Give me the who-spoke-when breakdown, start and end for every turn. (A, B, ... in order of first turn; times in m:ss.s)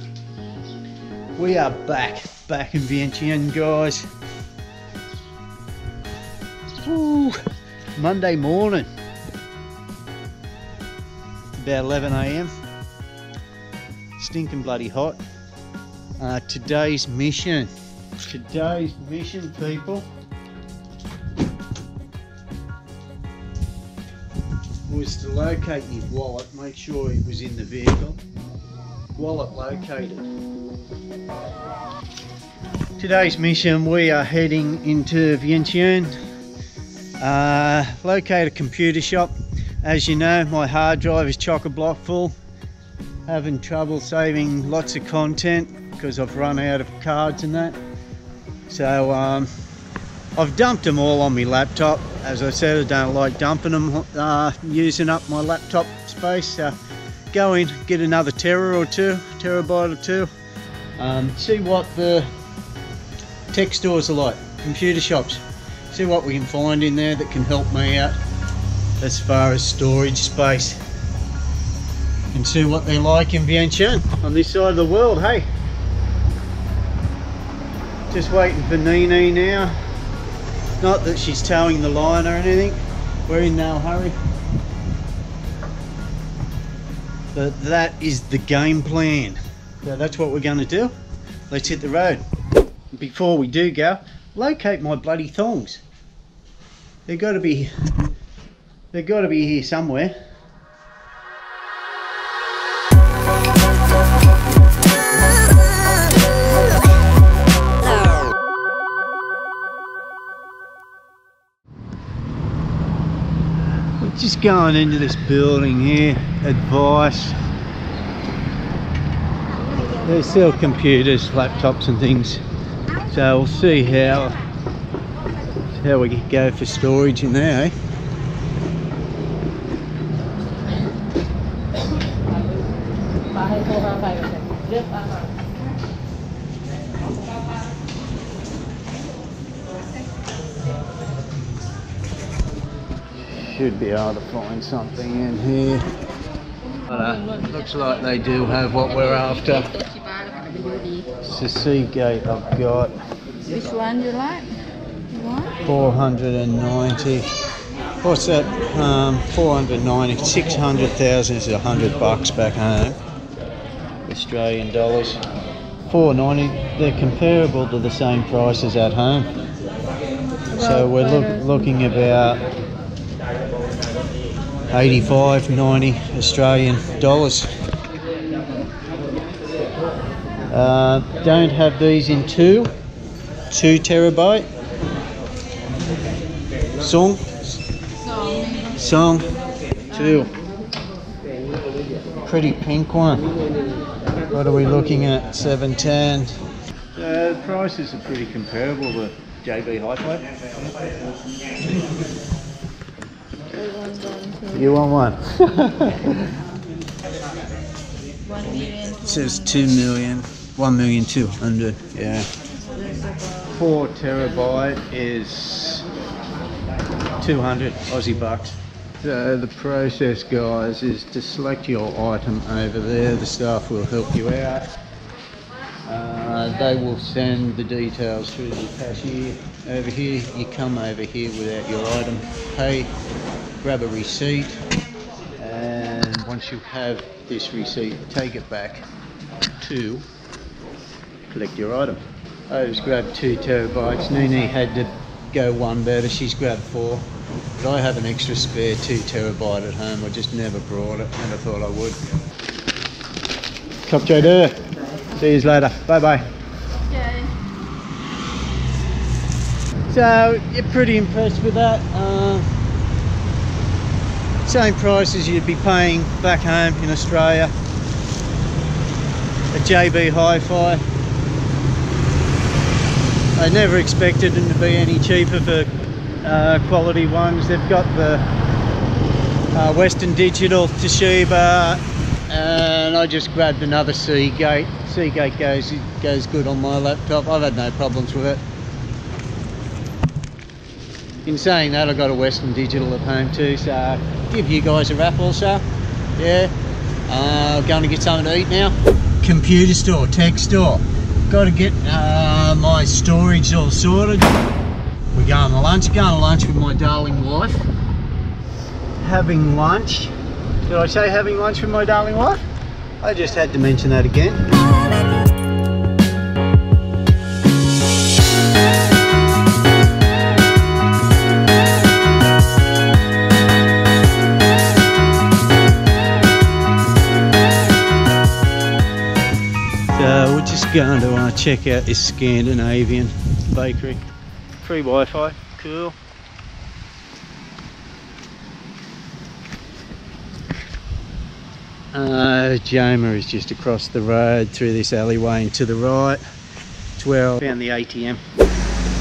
0:01.4-0:04.0 A
0:06.8-0:07.4 A
0:08.0-0:08.9 A
0:11.6-0:12.5 A
0:14.2-0:15.2 A
0:16.2-0:17.7 A
0:18.2-0:20.1 A
0:24.9-0:28.2 A
0:29.1-0:30.3 A
0:33.0-0:36.1 A
0:37.2-0:42.4 A
0:43.3-0:47.8 A
0:48.7-0:49.5 A
0:50.4-0:56.8 A
0:57.3-1:00.3 A
1:01.0-1:02.3 A
1:03.5-1:08.2 A
1:09.0-1:10.8 A
1:12.3-1:15.5 A
1:18.1-1:19.8 A
1:20.8-1:24.2 A
1:27.3-1:30.9 A
1:31.5-1:32.2 A
1:32.9-1:35.8 A
1:37.1-1:37.7 A
1:38.9-1:40.1 A
1:54.0-1:57.4 A
2:00.0-2:02.4 A
2:03.1-2:04.4 A
2:05.7-2:07.7 A
2:13.6-2:14.3 B
2:23.2-2:25.8 A
2:26.9-2:29.7 A
2:30.1-2:31.0 B
2:31.2-2:32.9 A
2:33.5-2:34.5 B
2:35.1-2:35.5 B
2:35.6-2:37.3 A
2:38.0-2:43.0 A
2:44.0-2:45.2 A
2:45.8-2:49.3 A
2:50.5-2:52.4 A
2:50.7-2:51.2 B
2:54.7-2:57.5 A
3:00.5-3:02.7 A
3:03.5-3:04.5 A
3:06.8-3:07.6 A
3:08.2-3:08.6 B
3:08.7-3:09.3 A
3:09.9-3:10.3 A
3:12.2-3:13.2 A
3:14.3-3:16.4 A
3:17.0-3:20.3 A
3:23.5-3:24.6 B
3:24.5-3:26.4 A
3:28.2-3:29.0 B
3:29.0-3:32.3 A
3:33.5-3:35.8 A
3:37.2-3:44.7 A
3:45.8-3:52.9 A
3:53.6-3:54.6 A
3:55.4-3:58.9 A
3:59.6-4:00.0 A
4:01.3-4:07.0 A
4:07.6-4:12.0 A
4:13.8-4:14.6 A
4:15.2-4:16.3 A
4:16.8-4:17.3 B
4:19.9-4:22.5 A
4:24.4-4:27.5 A
4:29.5-4:30.8 A
4:33.4-4:35.7 A
4:36.2-4:38.3 A
4:39.5-4:48.4 A
4:51.2-4:55.6 A
4:56.2-4:56.5 A
4:57.1-5:04.4 A
5:05.1-5:07.7 A
5:09.0-5:10.1 A
5:10.6-5:12.4 A
5:13.0-5:14.4 A
5:29.9-5:34.0 A
5:34.6-5:36.0 A
5:41.9-5:46.2 A
5:47.0-5:48.2 A